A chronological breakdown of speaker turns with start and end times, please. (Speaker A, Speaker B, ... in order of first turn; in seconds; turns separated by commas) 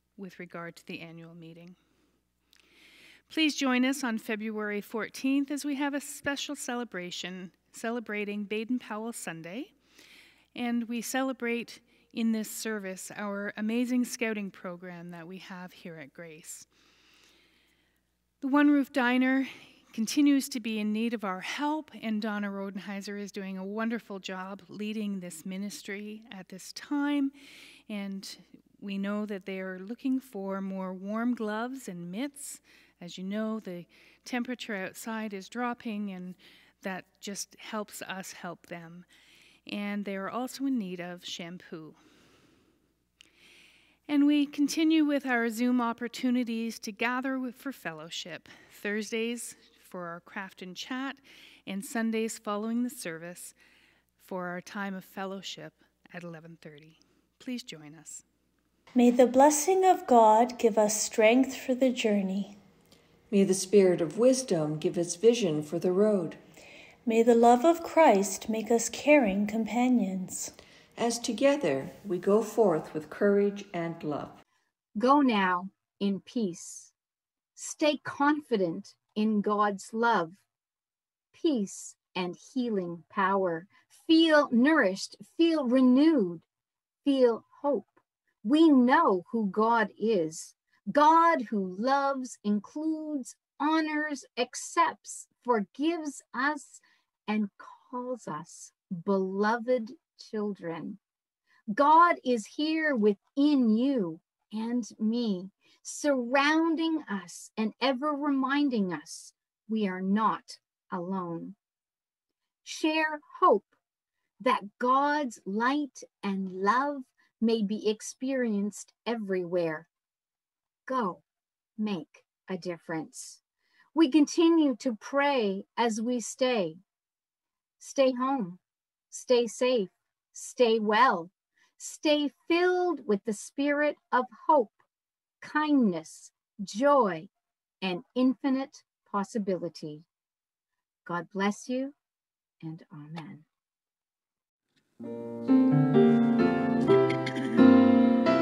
Speaker A: 0.2-1.8, Speaker A: 3.3-9.7, Speaker A: 10.5-16.7, Speaker A: 18.4-27.3, Speaker A: 27.9-39.0, Speaker A: 39.6-42.0, Speaker A: 44.1-53.5, Speaker A: 54.2-58.2, Speaker B: 58.9-62.5, Speaker C: 63.3-66.4, Speaker B: 67.0-70.5, Speaker C: 71.0-74.4, Speaker D: 75.0-76.9, Speaker D: 77.5-80.4, Speaker D: 81.3-86.4, Speaker D: 87.0-101.0, Speaker D: 101.7-111.5, Speaker D: 112.6-113.7, Speaker D: 114.4-119.9, Speaker D: 120.8-121.2, Speaker D: 121.8-123.4, Speaker D: 123.9-126.8, Speaker D: 127.8-128.6, Speaker D: 129.1-134.8, Speaker D: 135.4-137.3, Speaker D: 137.8-140.1, Speaker D: 141.1-141.9, Speaker D: 142.6-143.4